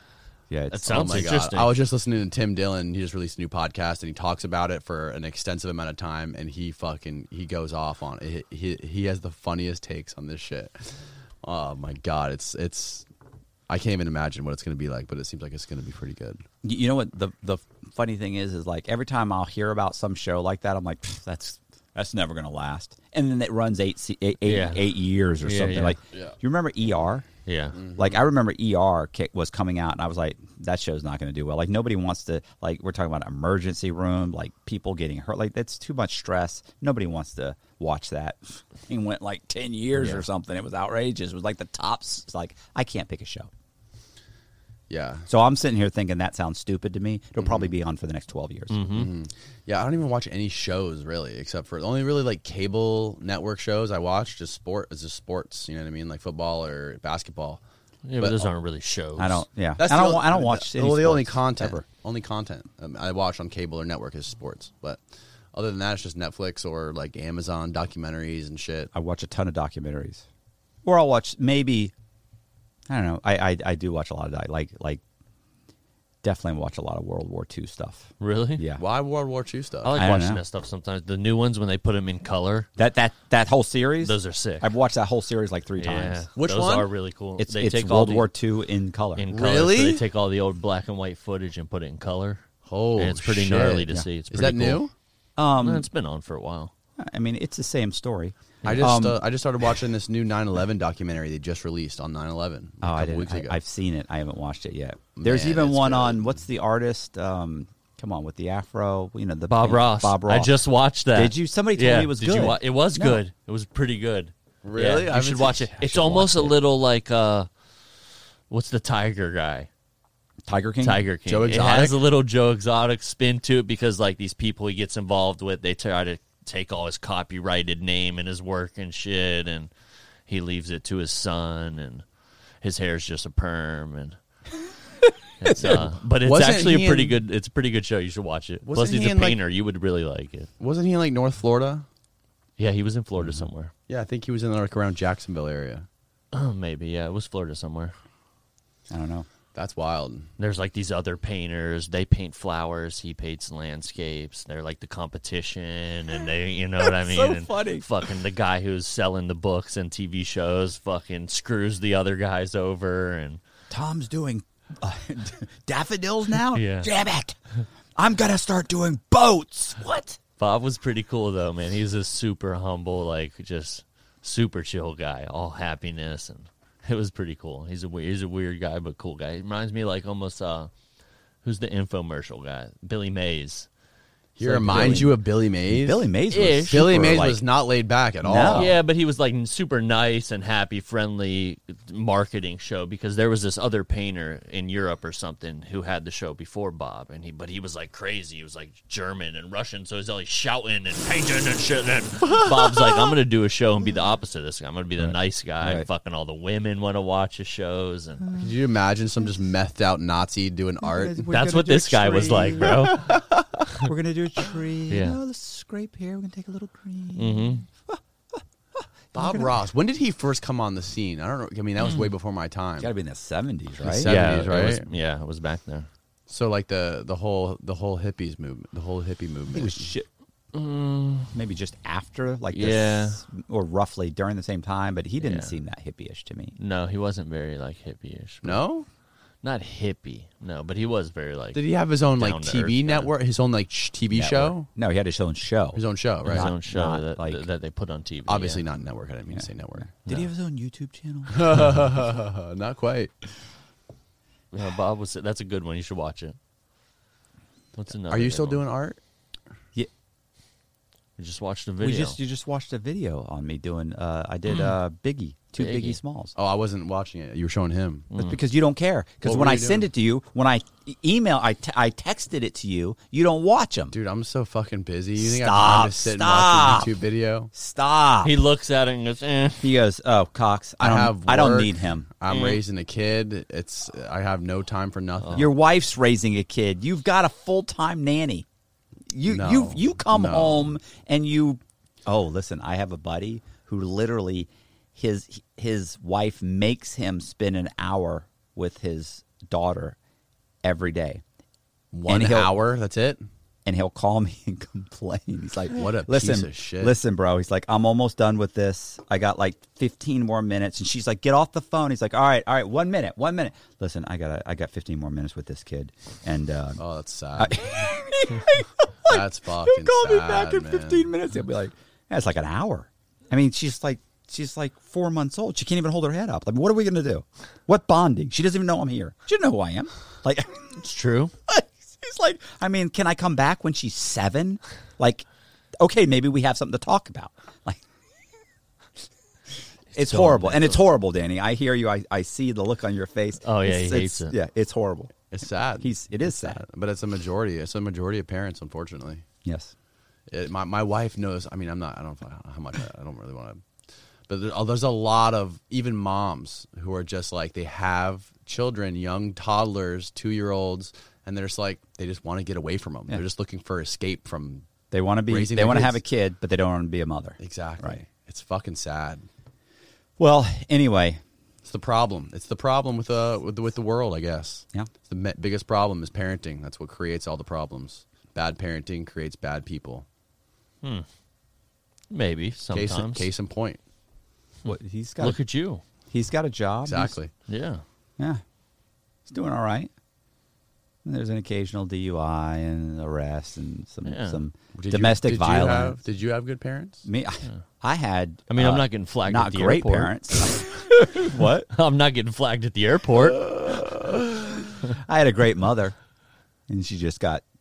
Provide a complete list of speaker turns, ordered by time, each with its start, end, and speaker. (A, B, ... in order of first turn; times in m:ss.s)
0:00.5-0:01.2 A
0:00.7-0:01.7 B
0:00.9-0:13.0 C
0:13.7-0:16.4 C
0:16.6-0:27.3 A
0:24.4-0:26.0 B
0:27.4-0:27.8 B
0:27.7-0:28.2 C
0:27.9-0:43.5 A
0:44.9-0:45.3 C
0:45.3-0:48.8 A
0:47.4-0:47.7 C
0:48.7-0:49.1 B
0:48.9-0:57.6 C
0:58.0-0:59.4 B
0:58.2-0:58.5 C
0:59.2-1:01.8 A
0:59.8-1:05.0 C
1:05.5-1:08.9 C
1:08.9-1:10.2 A
1:10.8-1:11.9 A
1:12.9-1:15.0 A
1:16.2-1:18.8 A
1:18.2-1:18.6 B
1:18.8-1:20.0 C
1:19.8-1:22.7 B
1:20.0-1:20.4 A
1:22.8-1:26.2 A
1:24.0-1:24.7 B
1:25.8-1:28.3 B
1:26.4-1:26.9 C
1:27.4-1:29.2 A
1:29.2-1:32.4 B
1:29.3-1:30.0 C
1:32.6-1:34.9 C
1:33.0-1:34.8 B
1:35.4-1:35.9 A
1:35.6-1:36.7 B
1:37.0-1:39.2 A
1:38.6-1:43.6 C
1:42.8-1:50.5 A
1:45.2-1:46.4 C
1:49.5-1:57.5 B
1:51.1-1:53.2 A
1:54.6-1:56.4 C
1:56.0-1:56.5 A
1:58.5-1:59.7 B
2:00.5-2:01.0 A
2:00.8-2:09.7 B
2:01.3-2:02.0 C
2:10.3-2:12.0 B
2:12.6-2:14.2 B
2:15.4-2:20.5 B
2:15.6-2:17.2 C
2:18.6-2:19.4 C
2:20.6-2:21.8 C
2:22.6-2:23.7 B
2:23.2-2:25.9 C
2:26.3-2:27.9 B
2:28.9-2:29.2 A
2:29.5-2:30.3 C
2:30.4-2:43.4 B
2:36.8-2:37.8 A
2:43.7-2:47.4 A
2:46.5-2:46.9 B
2:48.0-2:50.2 A
2:50.4-3:00.7 B
3:01.4-3:03.7 B
3:04.4-3:06.1 C
3:04.4-3:07.4 A
3:04.6-3:05.1 B
3:06.3-3:07.2 B
3:06.7-3:08.8 C
3:08.2-3:08.8 A
3:08.5-3:28.2 B
3:25.0-3:25.9 A
3:28.2-3:28.5 A
3:28.4-3:31.2 C
3:30.8-3:33.2 A
3:31.3-3:33.2 B
3:32.8-3:33.2 C
3:33.7-3:38.0 A
3:34.9-3:35.2 B
3:37.2-3:37.6 B
3:39.1-3:42.9 C
3:39.2-3:39.5 A
3:42.8-3:44.1 A
3:43.8-3:44.9 C
3:44.0-3:45.9 B
3:46.3-3:49.9 C
3:49.5-3:50.1 A
3:50.5-3:51.3 B
3:51.3-3:56.5 A
3:52.5-3:53.2 B
3:55.2-3:55.6 B
3:56.6-3:58.6 B
3:58.4-3:58.9 C
3:59.4-4:03.1 B
4:01.5-4:04.7 C
4:04.1-4:07.4 A
4:05.7-4:06.5 C
4:06.2-4:08.6 B
4:08.3-4:09.9 C
4:09.3-4:11.7 A
4:11.3-4:13.3 C
4:14.5-4:16.4 B
4:17.8-4:18.6 B
4:18.1-4:19.0 C
4:21.2-4:22.2 B
4:21.8-4:26.3 A
4:25.6-4:26.0 B
4:26.4-4:28.1 C
4:28.1-4:28.4 B
4:28.1-4:33.9 A
4:29.2-4:29.9 C
4:33.9-4:37.5 C
4:35.2-4:36.9 A
4:37.5-4:38.4 A
4:38.2-4:39.7 B
4:39.6-4:42.1 A
4:40.8-4:45.5 C
4:42.3-4:42.6 B
4:45.3-4:48.4 A
4:49.1-5:00.0 A
4:49.3-4:50.7 C
5:00.6-5:01.2 A
5:01.9-5:03.2 C
5:02.1-5:02.5 A
5:03.6-5:16.8 A
5:05.7-5:07.0 C
5:16.8-5:17.9 C
5:17.4-5:30.8 A
5:19.0-5:21.1 C
5:30.8-5:31.3 B
5:31.5-5:35.2 A
5:35.8-5:37.8 A
5:39.9-5:45.1 A
5:39.9-5:40.8 B
5:43.4-5:44.3 B
5:45.3-5:49.2 C
5:45.8-5:46.6 A
5:49.4-5:49.7 A
5:50.3-5:53.6 C
5:54.3-6:04.7 C
6:04.9-6:08.0 A
6:05.3-6:06.0 C
6:07.4-6:09.2 C
6:10.2-6:11.2 A
6:11.6-6:20.0 C
6:20.8-6:21.1 B
6:22.1-6:23.3 B
6:22.7-6:23.8 C
6:24.6-6:25.4 A
6:24.7-6:25.8 B
6:26.1-6:27.1 A
6:26.8-6:27.3 C
6:27.5-6:27.8 B
6:29.3-6:29.9 A
6:31.0-6:36.0 A
6:34.0-6:34.4 B
6:34.7-6:37.0 C
6:37.0-6:41.7 A
6:38.5-6:43.7 B
6:43.6-6:45.9 A
6:46.7-6:47.4 A